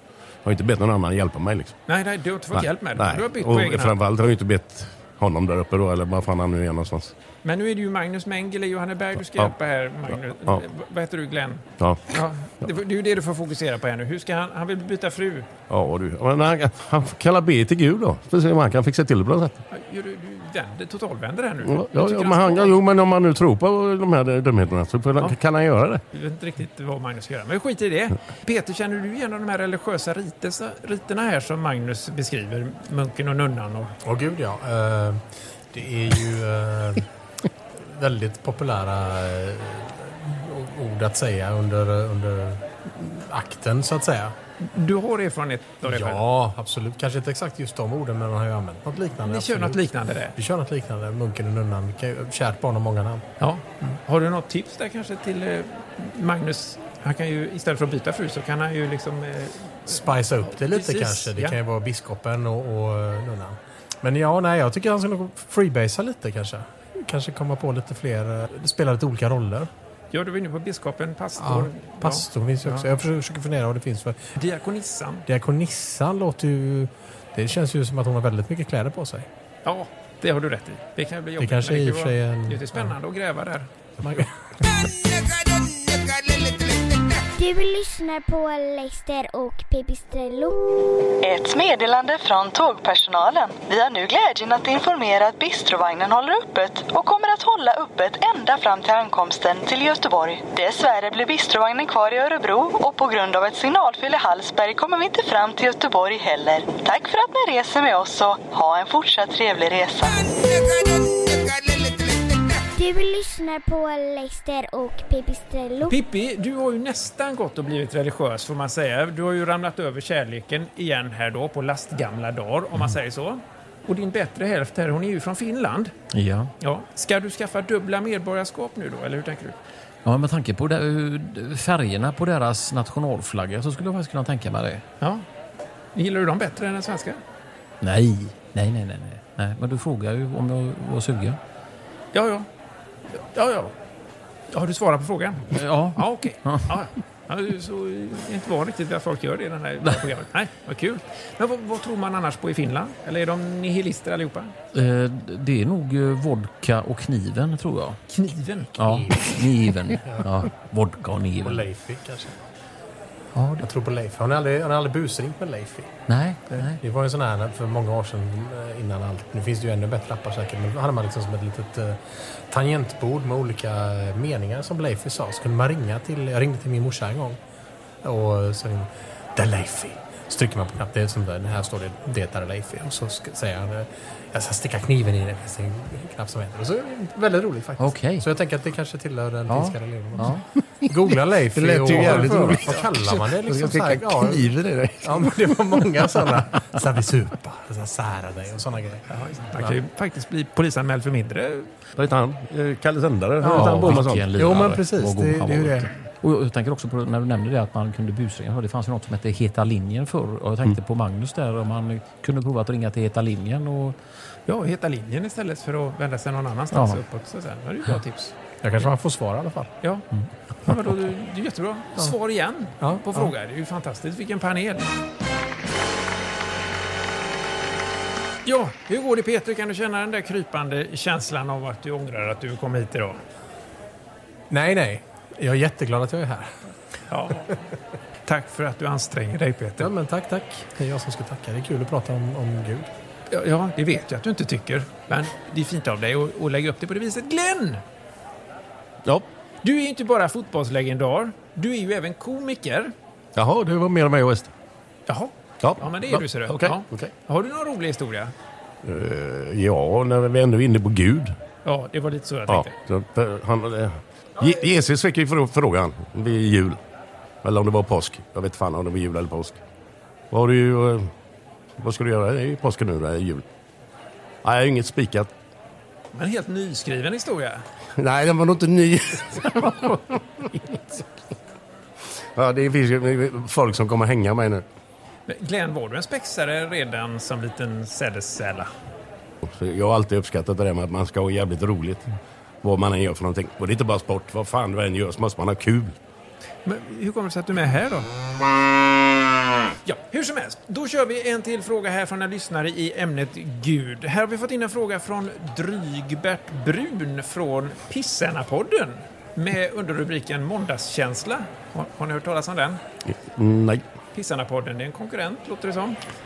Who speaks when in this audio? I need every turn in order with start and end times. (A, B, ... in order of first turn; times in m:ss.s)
0:00.4-0:01.8 A
0:01.9-0:04.0 B
0:02.5-0:07.1 A
0:07.4-0:15.5 B
0:15.7-0:19.6 A
0:19.7-0:22.8 B
0:21.6-0:26.0 A
0:26.1-0:34.0 B
0:34.0-0:37.1 C
0:37.7-0:44.4 C
0:44.6-0:46.2 B
0:45.8-0:49.8 C
0:49.3-0:50.4 B
0:50.4-0:53.3 C
0:53.4-1:01.6 B
0:59.9-1:09.7 C
1:10.1-1:12.9 B
1:11.4-1:14.2 C
1:14.4-1:15.2 B
1:15.3-1:19.3 C
1:19.6-1:23.7 B
1:21.4-1:22.9 C
1:24.0-1:24.3 C
1:27.3-1:30.6 D
1:31.2-1:50.6 E
1:52.8-1:56.0 D
1:55.9-2:05.9 B
2:06.1-2:06.5 F
2:06.6-2:09.6 B
2:10.0-2:14.8 F
2:16.0-2:17.2 B
2:17.8-2:21.4 F
2:22.1-2:22.5 B
2:23.2-2:23.7 B
2:24.5-2:34.5 B
2:25.5-2:26.7 F
2:34.7-2:38.0 F
2:38.1-2:38.7 B
2:38.8-2:41.6 F
2:38.8-2:39.3 C
2:39.9-2:40.3 C
2:41.4-2:42.4 C
2:43.4-2:43.6 F
2:43.6-2:46.0 C
2:46.1-2:46.8 F
2:46.6-2:57.4 C
2:58.0-3:19.0 C
3:07.8-3:08.3 F
3:09.5-3:10.4 F
3:11.5-3:15.3 A
3:19.1-3:21.7 B
3:22.0-3:24.3 A
3:23.4-3:25.9 C
3:23.4-3:34.0 F
3:34.5-3:38.4 B
3:36.7-3:37.0 F
3:38.6-3:39.7 C
3:40.7-3:44.9 B
3:42.8-3:43.3 C
3:48.4-3:53.2 B
3:54.5-3:56.7 C
3:57.1-3:57.6 B
3:58.3-3:59.9 B
3:59.8-4:02.9 C
4:03.3-4:07.8 B
4:09.6-4:12.9 B
4:13.4-4:14.5 A
4:15.1-4:18.3 B
4:15.6-4:17.1 A
4:18.8-4:21.4 A
4:21.6-4:22.8 B
4:22.5-4:26.8 A
4:27.4-4:29.6 A
4:30.3-4:31.1 A
4:31.8-4:33.4 A
4:34.4-4:35.3 A
4:36.1-4:37.6 B
4:38.0-4:40.2 A
4:42.4-4:44.6 A
4:45.3-4:48.7 B
4:49.4-4:52.0 A
4:52.6-4:56.0 A
4:56.6-4:58.1 B
4:59.9-5:12.8 B
5:13.1-5:13.8 A
5:14.1-5:16.0 B